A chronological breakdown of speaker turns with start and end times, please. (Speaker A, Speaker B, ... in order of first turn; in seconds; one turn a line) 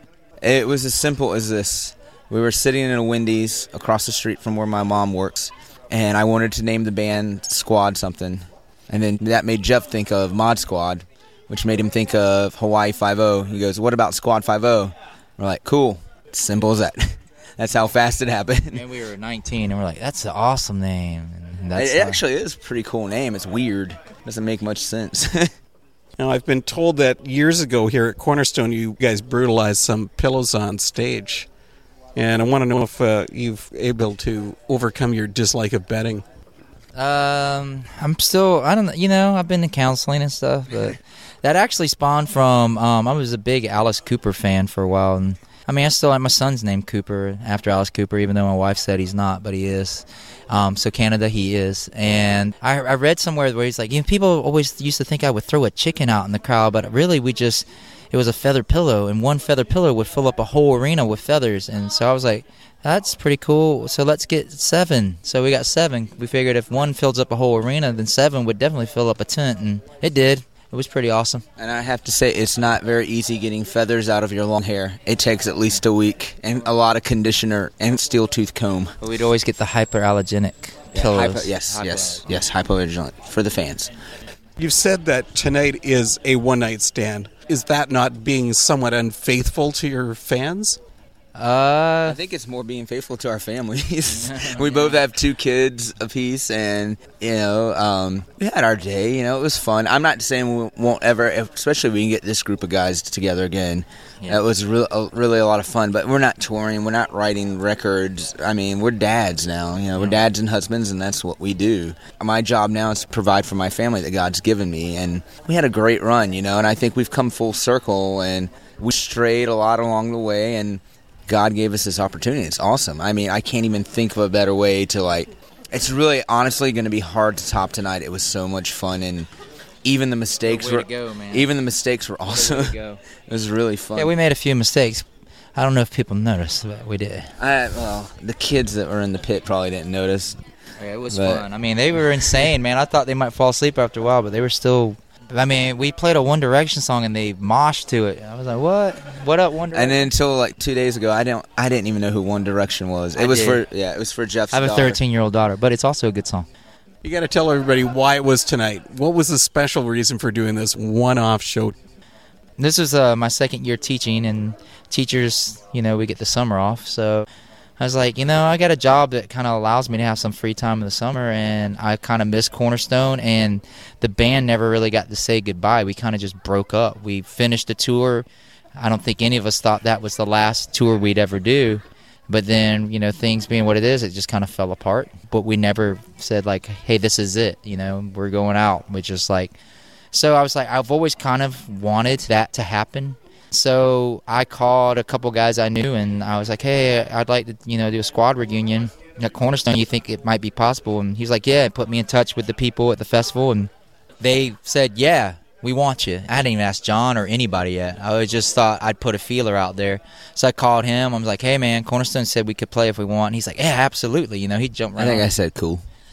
Speaker A: 0.4-18.8
Speaker B: 18.7-22.2
Speaker A: 21.7-25.5
Speaker C: 26.2-31.4
Speaker C: 32.2-36.2
Speaker B: 37.0-71.4
Speaker A: 71.6-78.9
Speaker B: 79.0-82.4
Speaker A: 80.9-83.9
Speaker C: 84.6-90.8
Speaker B: 91.3-92.2
Speaker A: 92.0-129.3
Speaker B: 94.2-95.0
Speaker A: 129.8-134.1
Speaker B: 130.4-131.5
Speaker B: 132.3-133.0
Speaker B: 133.9-137.3
Speaker A: 137.4-140.4
Speaker B: 140.8-150.1
Speaker A: 141.1-141.4
Speaker A: 149.7-155.0
Speaker B: 153.2-153.6
Speaker B: 154.5-156.5
Speaker C: 157.0-161.7
Speaker B: 162.6-167.3
Speaker B: 167.8-178.2
Speaker B: 178.8-189.5
Speaker B: 190.1-215.3
Speaker A: 215.0-215.8